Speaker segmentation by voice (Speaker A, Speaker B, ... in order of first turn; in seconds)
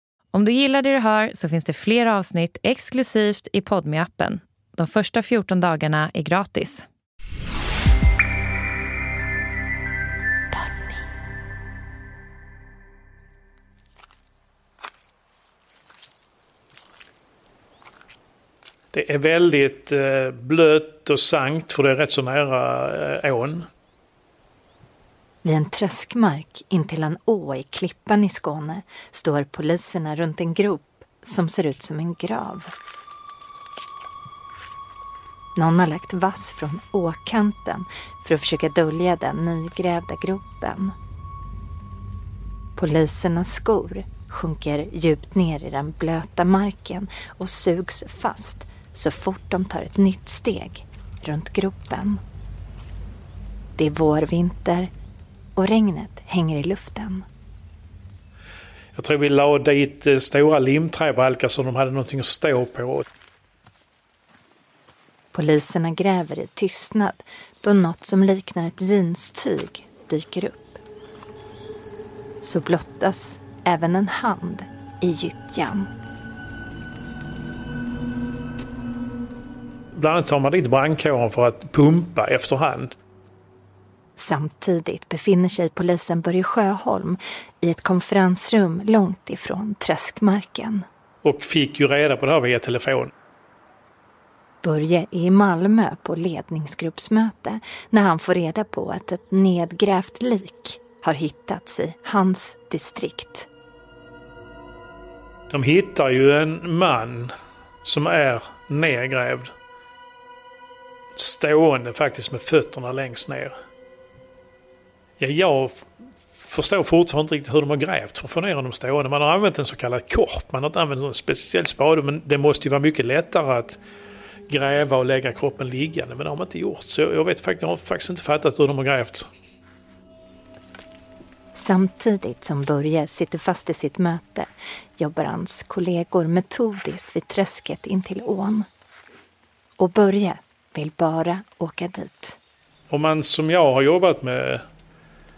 Speaker A: 0.3-6.8
Speaker B: 18.9-23.6, 58.9-63.0, 79.9-82.9, 91.2-93.1, 105.5-107.3, 107.8-109.5, 111.2-113.5, 115.2-115.9, 116.4-123.8, 124.5-129.3, 142.9-144.6
Speaker C: 25.4-32.7, 35.5-40.9, 42.8-52.2, 53.8-54.9, 55.5-57.2, 65.3-70.8, 72.4-75.9, 84.2-90.8, 94.6-103.5, 131.5-138.7, 139.8-142.4